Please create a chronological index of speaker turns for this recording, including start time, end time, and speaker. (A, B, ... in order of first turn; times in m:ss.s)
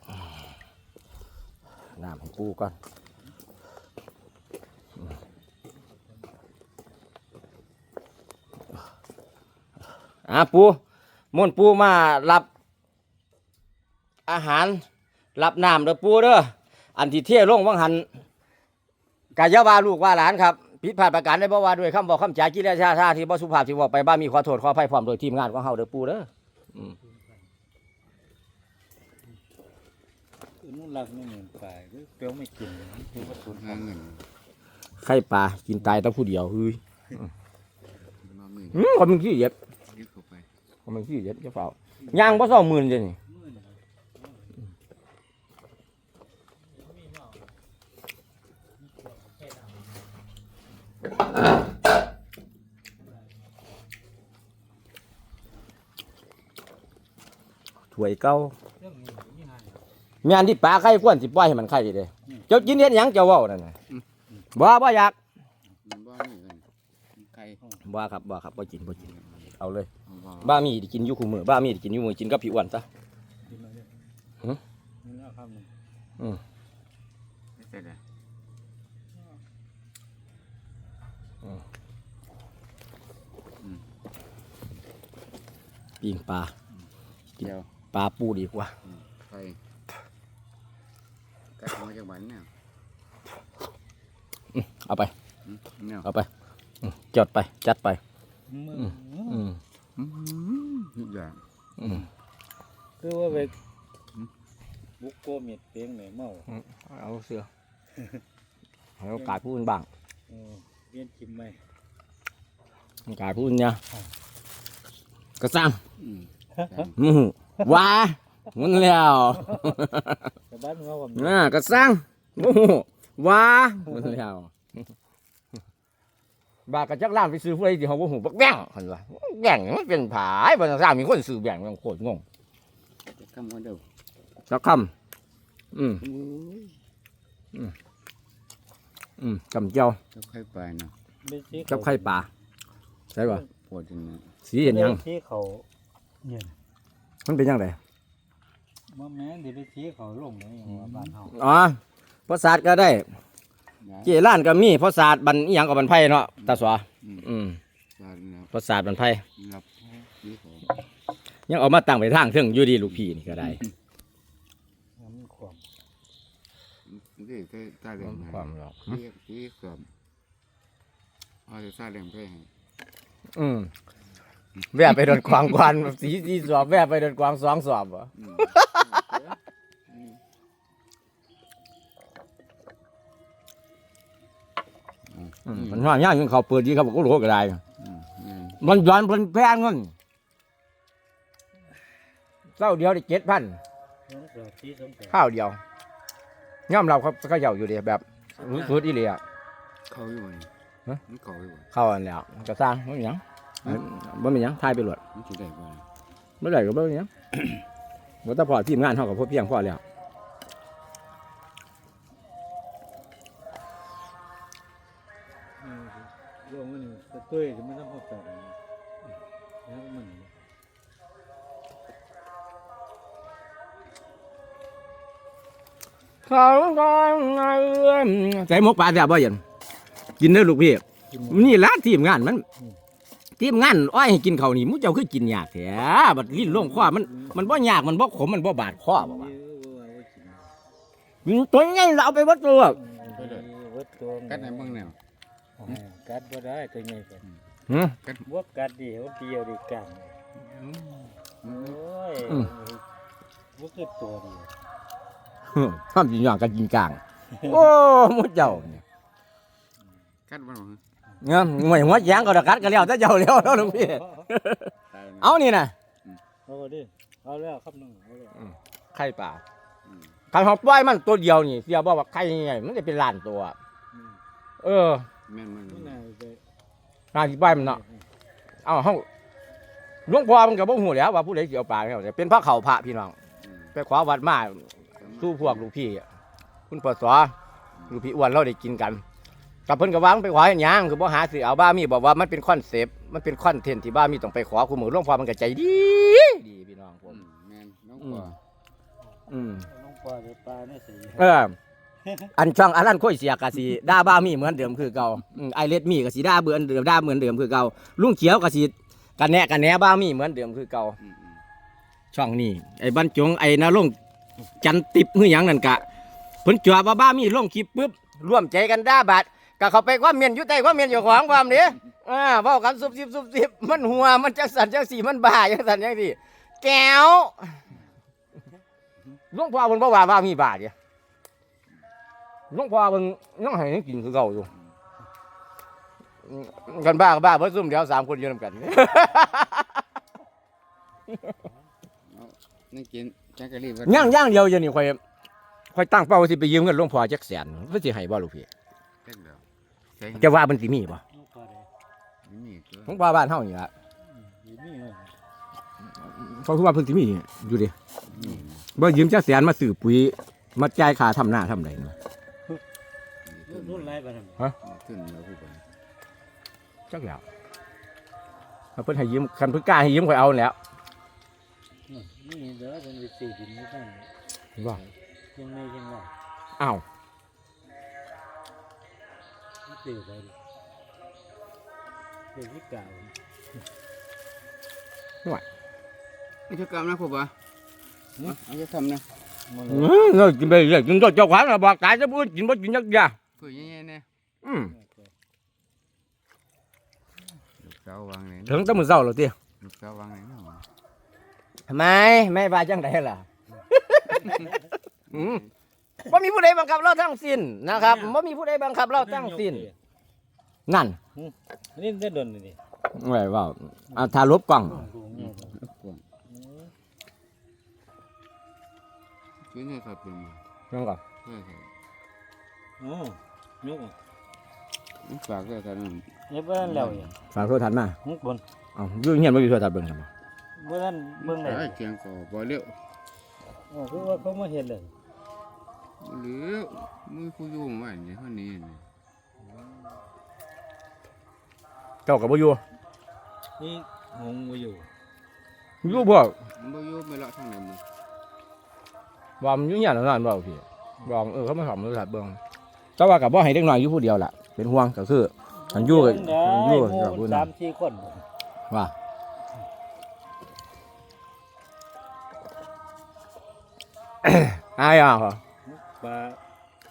0:02.0-0:02.7 A
0:10.3-0:10.8 A
0:11.3-0:12.5 A
0:14.3-0:14.8 A
0:15.4-0:18.1 A
0:19.4-0:26.9 A
0:30.6-0:33.8 B
0:33.3-0:34.2 C
0:35.0-0:36.8 A
0:38.2-0:39.0 C
0:38.7-0:39.5 A
0:39.9-0:40.5 C
0:40.9-0:43.2 A
0:42.2-0:42.5 B
0:43.3-0:44.4 B
0:46.8-0:47.4 B
0:57.9-0:58.6 A
0:58.8-0:59.8 B
1:00.2-1:03.8 A
1:04.6-1:05.2 A
1:05.8-1:07.6 C
1:07.8-1:09.0 A
1:09.0-1:09.5 C
1:09.6-1:09.9 A
1:10.1-1:10.6 C
1:10.4-1:12.9 A
1:13.5-1:13.9 B
1:15.0-1:15.7 B
1:17.6-1:18.0 C
1:23.6-1:23.8 C
1:26.0-1:26.5 A
1:27.4-1:27.7 C
1:27.9-1:28.7 A
1:28.8-1:29.6 C
1:31.6-1:32.5 C
1:34.6-1:35.1 A
1:35.4-1:36.1 C
1:36.8-1:38.0 A
1:38.5-1:39.5 B
1:39.3-1:39.6 A
1:40.0-1:41.4 C
1:41.8-1:42.0 A
1:43.0-1:43.5 B
1:45.0-1:46.5 B
1:46.5-1:47.5 A
1:49.0-1:49.9 A
1:50.3-1:51.6 B
1:53.1-1:53.8 A
1:55.4-1:55.8 A
1:56.0-1:57.0 C
1:57.0-2:00.3 A
2:00.5-2:01.5 B
2:01.2-2:04.5 A
2:06.7-2:12.2 A
2:13.2-2:13.8 C
2:14.5-2:14.9 A
2:15.7-2:16.0 A
2:16.0-2:16.7 C
2:19.2-2:20.0 A
2:20.1-2:20.9 C
2:21.2-2:22.2 B
2:21.7-2:22.3 A
2:23.1-2:23.4 A
2:23.4-2:24.3 C
2:24.5-2:25.0 A
2:24.6-2:25.7 B
2:26.2-2:26.5 B
2:27.3-2:27.8 A
2:28.9-2:31.4 B
2:30.7-2:31.2 C
2:31.2-2:33.1 A
2:33.8-2:34.1 C
2:34.0-2:37.6 A
2:36.4-2:37.3 C
2:38.0-2:38.5 C
2:38.5-2:39.2 A
2:39.4-2:39.7 C
2:40.2-2:40.7 C
2:41.5-2:43.6 A
2:45.0-2:45.6 B
2:46.9-2:49.9 C
2:48.0-2:49.0 A
2:51.5-2:52.5 C
2:53.4-2:53.7 A
2:54.7-2:59.0 A
2:58.2-2:59.4 C
2:59.9-3:00.2 C
3:05.1-3:05.9 C
3:05.5-3:07.6 A
3:07.8-3:08.6 C
3:08.6-3:09.9 A
3:12.6-3:13.6 A
3:14.1-3:15.2 B
3:15.1-3:15.6 A
3:16.7-3:19.2 A
3:19.9-3:20.5 C
3:21.1-3:21.7 C
3:21.7-3:25.0 A
3:25.1-3:25.9 C
3:26.4-3:27.1 A
3:28.2-3:29.8 A
3:35.6-3:38.6 B
3:39.7-3:40.3 B
3:46.3-3:49.4 A
3:50.2-3:52.4 A
3:51.1-3:51.6 B
3:53.4-3:59.3 A
3:56.3-3:57.5 B
3:58.9-4:00.5 B
4:01.2-4:02.8 A
4:02.8-4:04.8 B
4:03.0-4:03.5 C
4:04.3-4:05.0 C
4:05.6-4:07.2 B
4:07.7-4:08.0 A
4:08.3-4:10.2 B
4:10.4-4:11.8 C
4:11.4-4:12.8 B
4:12.3-4:12.5 A
4:13.6-4:14.5 B
4:15.5-4:18.8 A
4:17.4-4:17.7 B
4:20.3-4:20.8 C
4:21.2-4:25.7 A
4:23.4-4:24.2 B
4:24.9-4:25.4 C
4:26.5-4:28.3 B
4:28.4-4:29.4 A
4:29.8-4:30.2 C
4:30.3-4:33.6 A
4:34.6-4:35.1 A
4:35.3-4:36.0 C
4:35.7-4:36.4 B
4:37.1-4:37.8 A
4:37.4-4:38.0 B
4:38.7-4:39.1 A
4:40.1-4:43.2 A
4:43.4-4:43.8 C
4:43.8-4:46.0 A
4:45.0-4:45.7 C
4:46.7-4:47.3 A
4:47.9-4:49.0 A
4:49.7-4:57.2 A
4:57.1-4:58.4 C
4:58.0-4:58.3 A
4:59.3-4:59.7 A
4:59.7-5:01.3 B
5:01.2-5:01.6 A
5:02.4-5:11.0 A
5:11.0-5:11.4 C
5:12.1-5:14.0 A
5:14.6-5:15.8 A
5:16.4-5:27.7 A
5:29.3-5:30.7 A
5:32.5-5:34.5 A
5:36.3-5:39.7 A
5:42.0-5:44.2 C
5:43.9-5:45.0 A
5:45.7-5:48.5 A
5:49.0-5:49.4 C
5:50.0-5:50.3 C
5:50.2-5:51.0 A
5:51.1-5:51.7 B
5:52.2-5:53.0 C
5:52.9-5:53.7 A
5:54.1-5:55.2 B
5:56.2-5:57.7 A
5:58.1-5:58.7 C
5:58.8-6:01.9 A
6:03.3-6:04.0 C
6:03.5-6:04.4 B
6:04.6-6:05.6 C
6:06.9-6:07.2 A
6:08.8-6:10.6 A
6:11.9-6:14.1 B
6:15.4-6:16.1 B
6:16.6-6:16.8 A
6:19.7-6:20.4 B
6:22.3-6:23.1 B
6:26.5-6:27.4 C
6:28.2-6:29.1 C
6:29.5-6:29.9 B
6:29.7-6:33.2 A
6:33.4-6:34.1 C
6:34.4-6:34.7 A
6:34.7-6:35.1 B
6:37.6-6:38.9 C
6:38.5-6:39.4 A
6:39.6-6:40.7 C
6:41.7-6:44.6 A
6:45.1-6:45.5 C
6:45.1-6:45.4 A
6:46.0-6:49.7 A
6:47.7-6:48.2 B
6:49.0-6:49.7 B
6:50.7-6:51.0 A
6:51.2-6:52.6 B
6:52.9-6:54.9 A
6:54.6-6:55.6 B
6:55.1-6:56.0 C
6:56.3-6:56.7 B
6:59.5-7:00.4 C
7:00.7-7:01.0 A
7:01.2-7:01.7 C
7:02.8-7:04.0 B
7:05.0-7:07.2 C
7:06.3-7:07.1 B
7:07.3-7:08.0 A
7:08.0-7:08.4 B
7:08.8-7:10.1 A
7:10.6-7:11.8 B
7:11.2-7:12.8 C
7:13.7-7:14.9 B
7:16.0-7:18.9 C
7:22.1-7:22.6 A
7:23.6-7:24.9 B
7:25.8-7:26.4 A
7:26.5-7:27.8 C
7:29.4-7:32.4 A
7:33.0-7:37.5 A
7:35.7-7:38.2 B
7:44.2-7:45.4 A
7:45.7-7:46.4 B